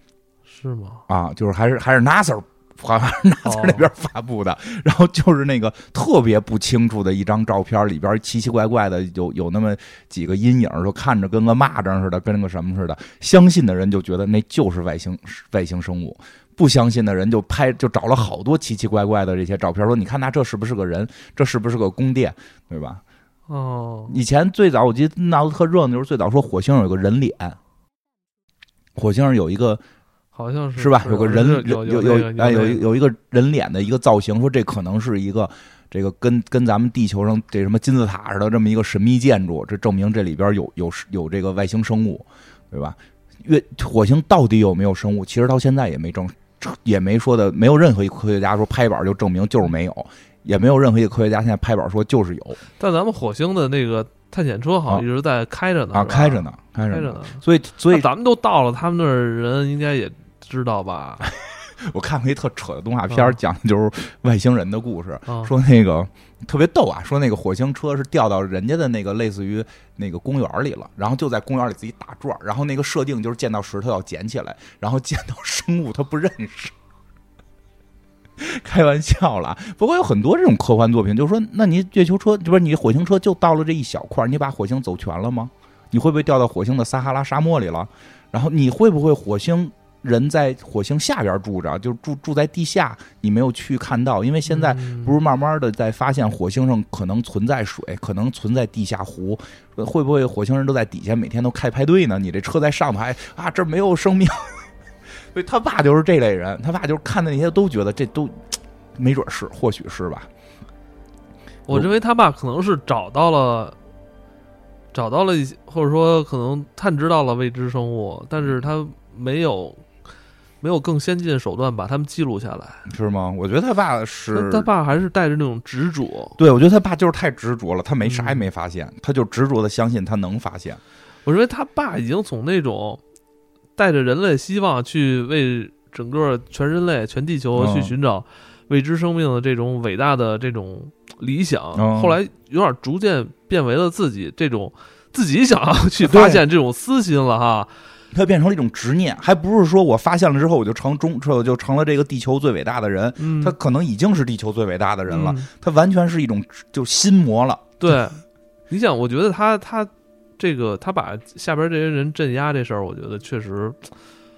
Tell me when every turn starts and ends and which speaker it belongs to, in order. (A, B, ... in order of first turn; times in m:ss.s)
0:00.4-0:01.0 A
0:01.1-0:23.0 B
0:03.4-0:03.9 A
0:23.5-0:24.2 A
0:24.1-0:27.6 B
0:29.0-0:29.8 B
0:30.3-0:32.8 A
0:30.8-0:52.6 B
0:52.8-1:01.3 A
0:55.9-0:58.1 B
1:01.2-1:16.7 B
1:03.1-1:03.4 A
1:05.3-1:05.5 A
1:18.4-1:44.7 B
1:34.4-1:35.2 A
1:45.3-1:50.3 B
1:51.7-1:53.8 A
1:54.9-1:59.8 A
2:00.6-2:02.8 A
2:02.9-2:04.7 B
2:04.3-2:06.4 A
2:06.4-2:10.8 B
2:08.0-2:08.4 A
2:11.2-2:13.0 A
2:13.8-2:27.7 A
2:17.6-2:17.9 B
2:21.7-2:22.2 B
2:26.0-2:26.4 B
2:28.1-2:37.7 B
2:33.2-2:33.6 A
2:35.1-2:35.5 A
2:37.8-2:43.9 A